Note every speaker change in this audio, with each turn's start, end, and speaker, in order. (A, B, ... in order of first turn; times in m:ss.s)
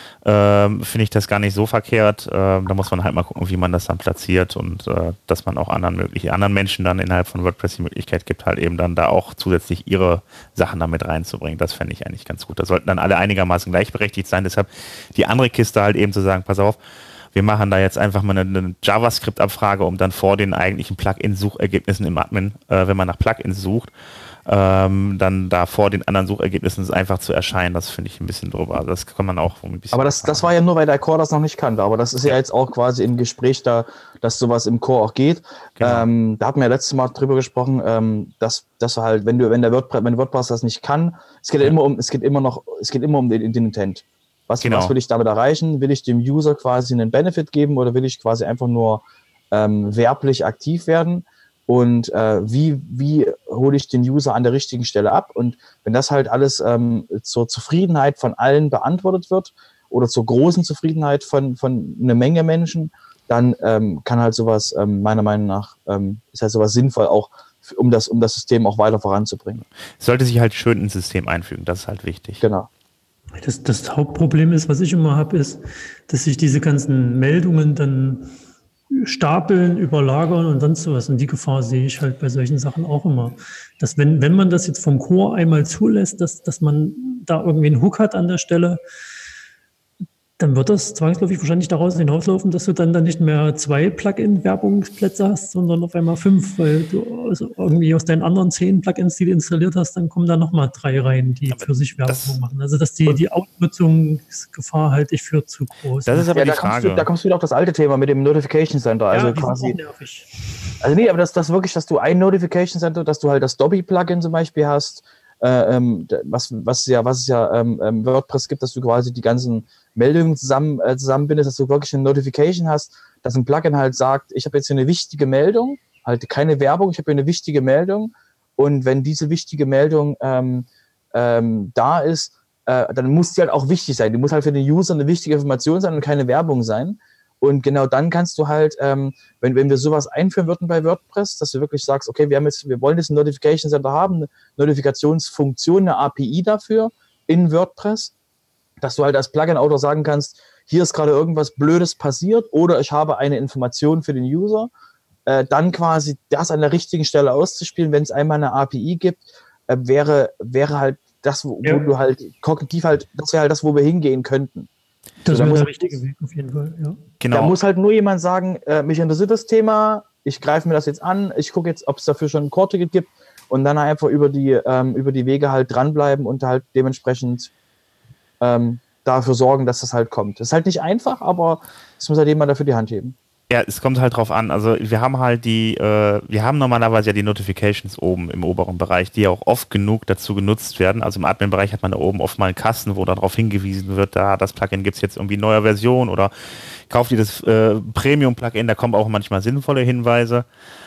0:00.2-0:16.8 A
0:17.3-0:23.9 A
0:24.5-0:30.5 A
0:29.9-1:09.6 B
0:35.8-0:36.1 A
0:44.6-0:44.9 A
1:10.0-1:12.4 A
1:12.4-1:12.7 B
1:13.4-1:18.3 C
1:18.9-1:28.8 C
1:30.4-1:46.3 C
1:41.5-1:42.4 A
1:46.1-1:47.1 A
1:46.3-1:49.8 B
1:49.1-1:50.8 C
1:50.8-2:28.1 B
2:28.8-2:34.7 B
2:35.3-2:44.7 B
2:45.2-2:47.0 C
2:45.3-2:46.0 B
2:47.2-2:47.6 A
2:47.3-2:57.5 B
2:58.4-3:03.2 B
3:03.5-3:20.5 A